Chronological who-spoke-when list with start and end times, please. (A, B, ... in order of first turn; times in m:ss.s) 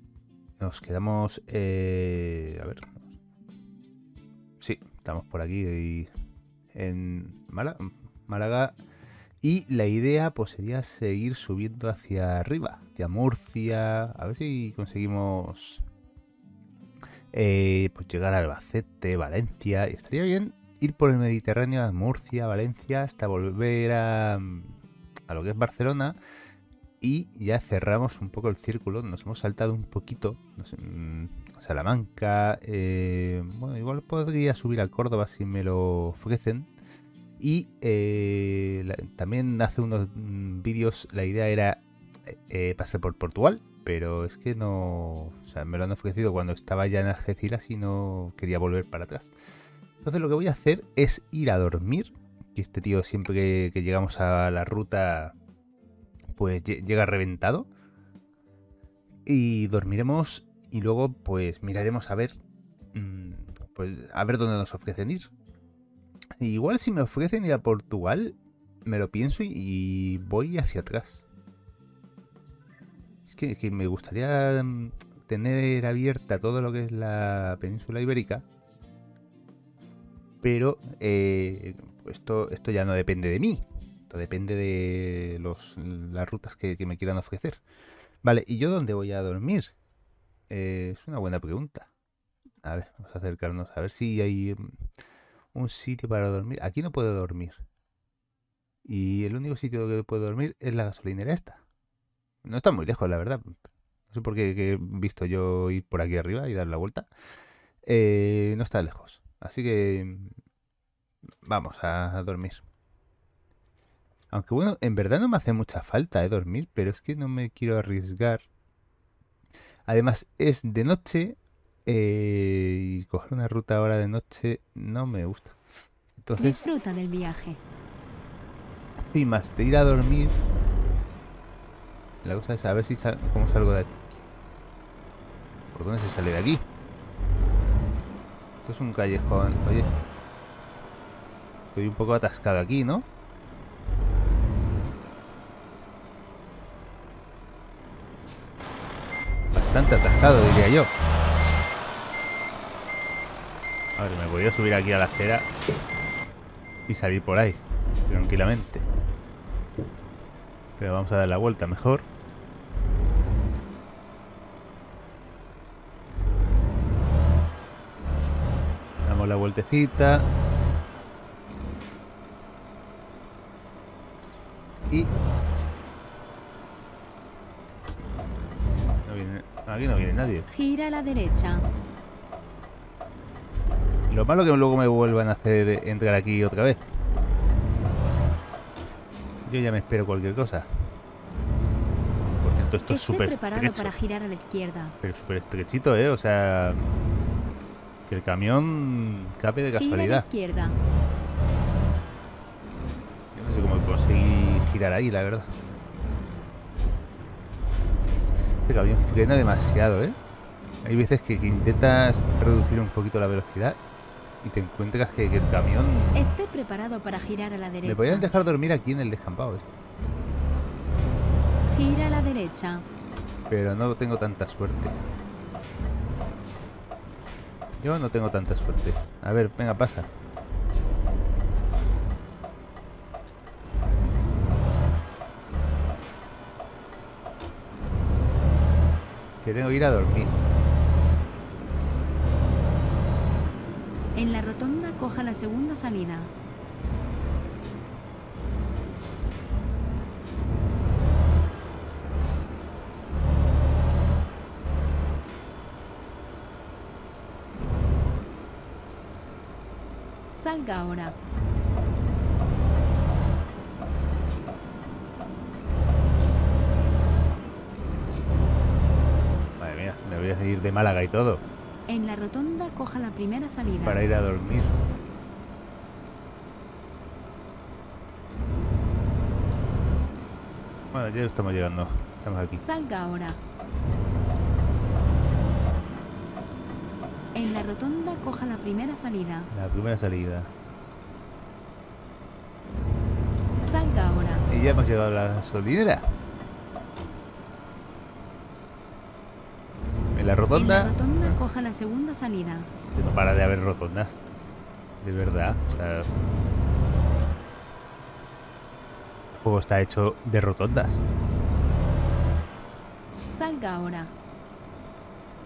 0:00.6-0:03.1 A
0:04.6-0:06.1 A
0:06.7-0:08.7 A
0:09.4-0:15.8 A
0:17.3-0:24.8 A
0:25.3-0:26.2 A
0:27.0-0:36.7 A
0:37.4-0:49.3 A
0:50.0-0:55.4 A
0:56.4-0:57.7 A
0:59.3-1:02.4 A
1:02.9-1:05.3 A
1:06.4-1:11.3 A
1:13.3-1:18.4 A
1:20.4-1:27.6 A
1:28.2-1:29.7 A
1:30.5-1:31.9 A
1:32.6-1:34.8 A
1:35.5-1:37.6 A
1:38.8-1:41.6 A
1:42.4-1:43.6 A
1:44.1-1:47.1 A
1:47.9-1:50.4 A
1:51.4-1:52.6 A
1:54.3-1:58.4 A
1:59.9-2:05.6 A
2:06.2-2:06.6 A
2:06.4-2:07.6 B
2:09.1-2:10.4 A
2:12.2-2:14.0 A
2:15.7-2:16.6 A
2:18.6-2:19.9 A
2:21.7-2:23.1 A
2:29.5-2:30.9 A
2:34.0-2:35.5 A
2:36.9-2:38.9 A
2:40.8-2:42.1 A
2:49.0-2:50.3 A
2:59.0-3:00.5 A
3:00.5-3:01.7 B
3:04.1-3:06.8 A
3:09.5-3:10.7 A
3:12.4-3:13.9 A
3:12.9-3:15.0 B
3:15.0-3:16.8 A
3:18.1-3:20.2 A
3:19.7-3:20.8 B
3:23.3-3:25.5 A
3:28.6-3:30.2 A
3:30.8-3:33.8 A
3:34.4-3:36.3 A
3:36.2-3:38.3 B
3:37.8-3:39.8 A
3:41.7-3:42.8 B
3:43.5-3:45.0 A
3:47.8-3:50.1 A
3:59.4-4:00.3 A
4:04.2-4:06.3 B
4:20.3-4:21.2 B
4:29.6-4:31.4 A
4:31.9-4:34.0 B
4:33.8-4:34.7 A
4:40.9-4:42.6 A
4:42.6-4:43.4 B
4:47.3-4:49.5 B
4:49.5-4:50.5 A
4:53.6-4:54.5 B
4:54.5-4:56.1 A
5:00.2-5:01.4 A
5:00.5-5:02.7 B
5:02.9-5:04.2 A
5:05.0-5:06.1 A
5:09.4-5:11.0 A
5:13.3-5:14.1 B